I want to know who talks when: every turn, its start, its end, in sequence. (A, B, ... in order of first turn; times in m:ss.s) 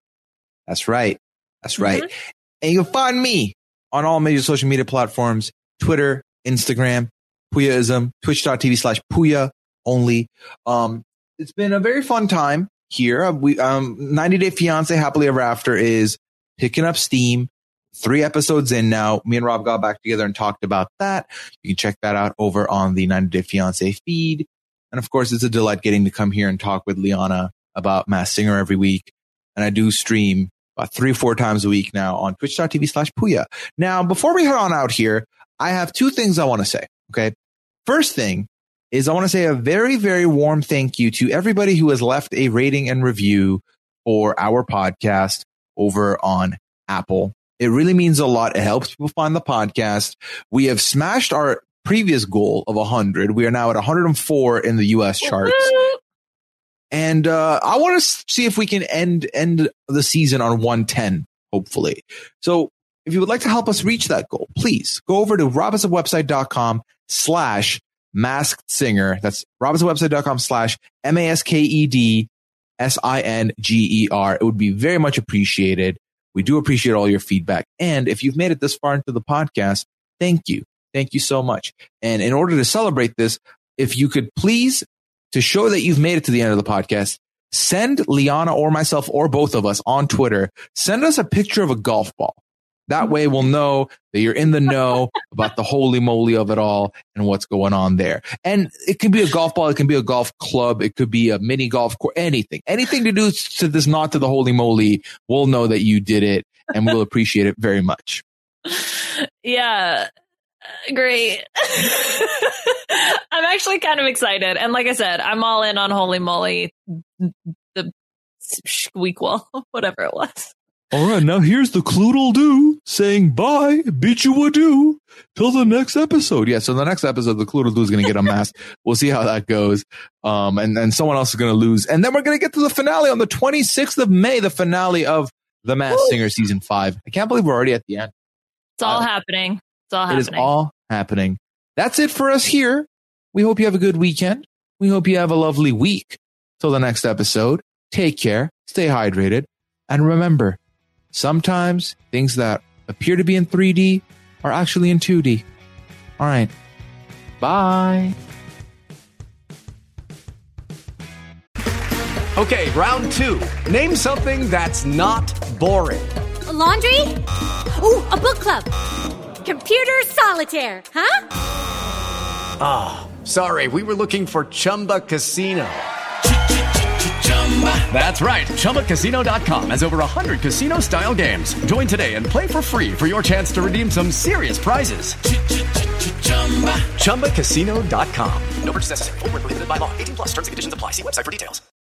0:00.7-0:37.3 A
0:01.8-0:02.1 B
0:37.8-0:55.7 A
0:55.2-0:56.0 B
0:56.9-1:48.2 A
1:48.7-1:50.1 B
1:50.8-2:00.5 B
2:00.9-2:18.1 A
2:15.9-2:16.2 B
2:18.8-2:20.5 B
2:20.1-2:30.6 A
2:31.1-2:35.4 A
2:36.2-2:36.5 A
2:37.4-2:38.1 A
2:42.4-2:46.2 C
2:46.5-2:47.2 D
2:47.8-2:48.7 D
2:49.4-2:51.2 D
2:52.6-3:08.6 C
3:08.6-3:11.6 E